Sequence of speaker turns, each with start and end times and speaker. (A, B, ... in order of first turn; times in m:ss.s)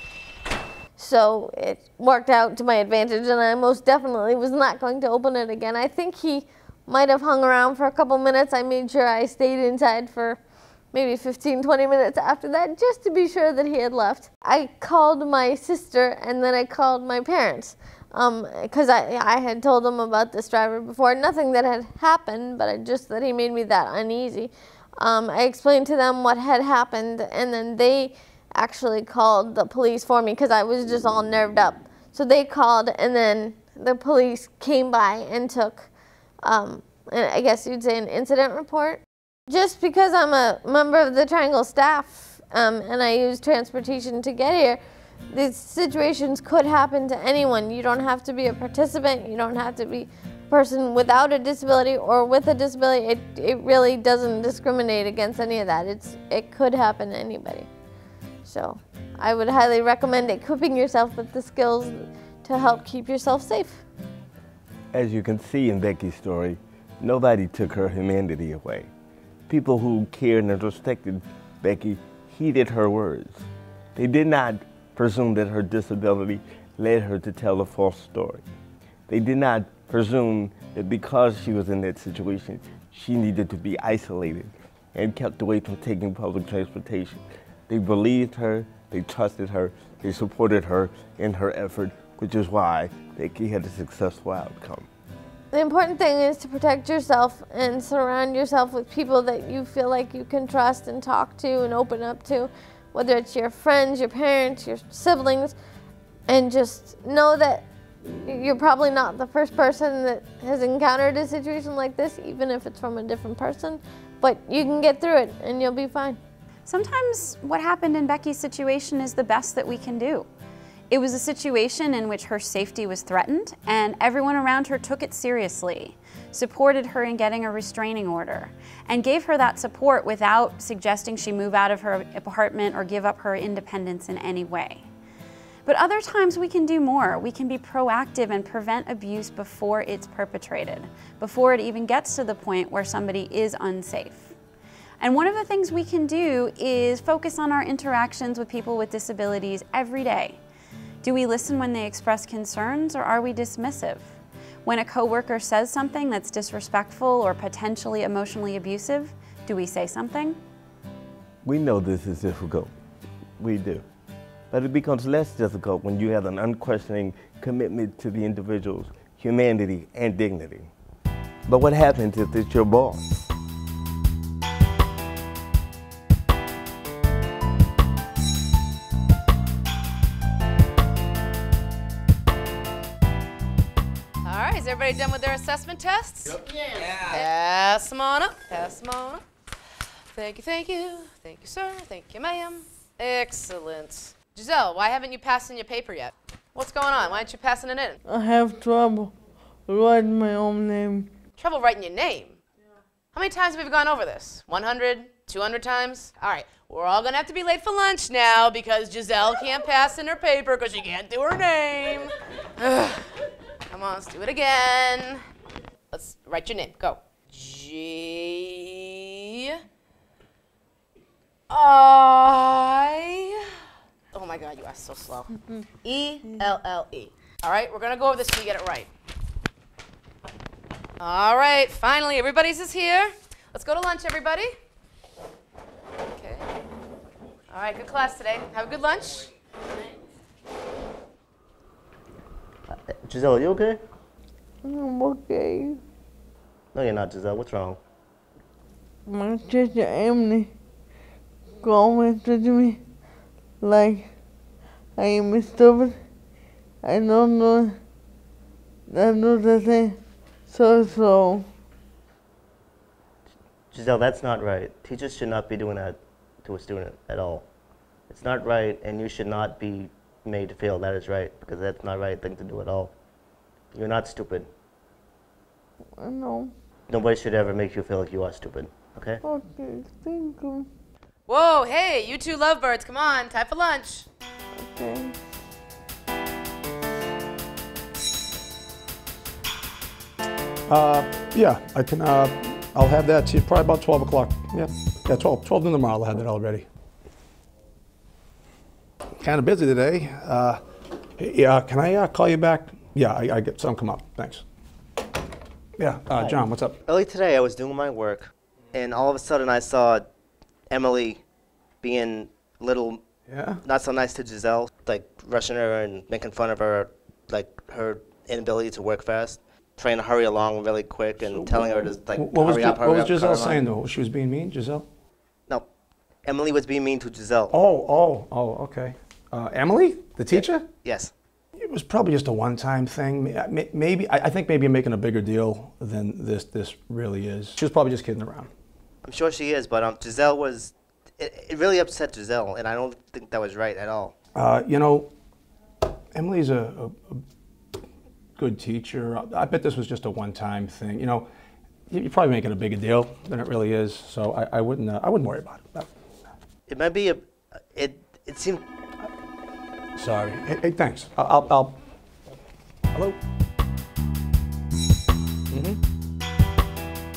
0:01.0-0:10.4 A
0:10.9-0:35.9 A
0:36.4-0:57.7 A
0:58.4-1:03.8 A
1:04.9-1:08.9 B
1:09.5-1:18.4 B
1:19.1-1:34.9 B
1:35.5-1:45.6 A
1:46.3-1:47.7 A
1:48.2-1:56.2 A
1:56.7-2:00.3 C
2:00.9-2:14.9 C
2:15.7-2:24.4 C
2:25.0-2:30.4 C
2:31.0-2:40.4 C
2:41.4-2:42.7 B
2:43.4-2:43.8 B
2:44.5-2:50.7 B
2:51.5-2:53.3 B
3:04.2-3:09.2 D
3:10.1-3:18.0 D
3:18.0-3:19.1 E
3:19.7-3:21.1 E
3:21.4-3:22.4 D
3:23.1-3:33.1 D
3:33.7-3:35.2 D
3:35.9-3:39.6 D
3:41.5-3:43.5 D
3:44.1-3:45.3 D
3:45.8-3:48.9 D
3:51.0-3:54.5 D
3:56.2-3:56.5 D
3:57.5-3:59.3 D
4:02.7-4:03.8 F
4:04.6-4:05.8 E
4:06.7-4:07.8 F
4:09.1-4:10.5 E
4:11.6-4:12.8 E
4:13.6-4:14.2 E
4:15.0-4:16.1 E
4:16.8-4:17.8 E
4:18.9-4:21.5 E
4:23.7-4:27.5 F
4:28.1-4:32.9 F
4:33.7-4:34.5 F
4:36.0-4:36.6 E
4:36.9-4:39.2 F
4:39.2-4:40.7 E
4:41.3-4:44.1 D
4:44.6-4:45.2 E
4:50.7-4:56.7 G
4:59.2-5:00.6 G
5:01.2-5:04.4 G
5:05.8-5:06.8 G
5:06.1-5:10.0 F
5:10.7-5:11.2 F
5:11.8-5:13.0 F
5:13.3-5:13.6 G
5:13.6-5:23.7 F
5:21.2-5:24.9 G
5:26.2-5:27.5 F
5:27.5-5:30.7 G
5:30.3-5:31.1 F
5:31.6-5:38.5 G
5:39.0-5:44.2 F
5:44.4-5:45.1 G
5:46.1-5:47.2 G
5:48.4-5:51.3 G
5:51.9-5:55.9 G
5:56.7-5:58.6 F
6:00.0-6:01.8 G
6:02.9-6:03.2 G
6:05.5-6:05.8 G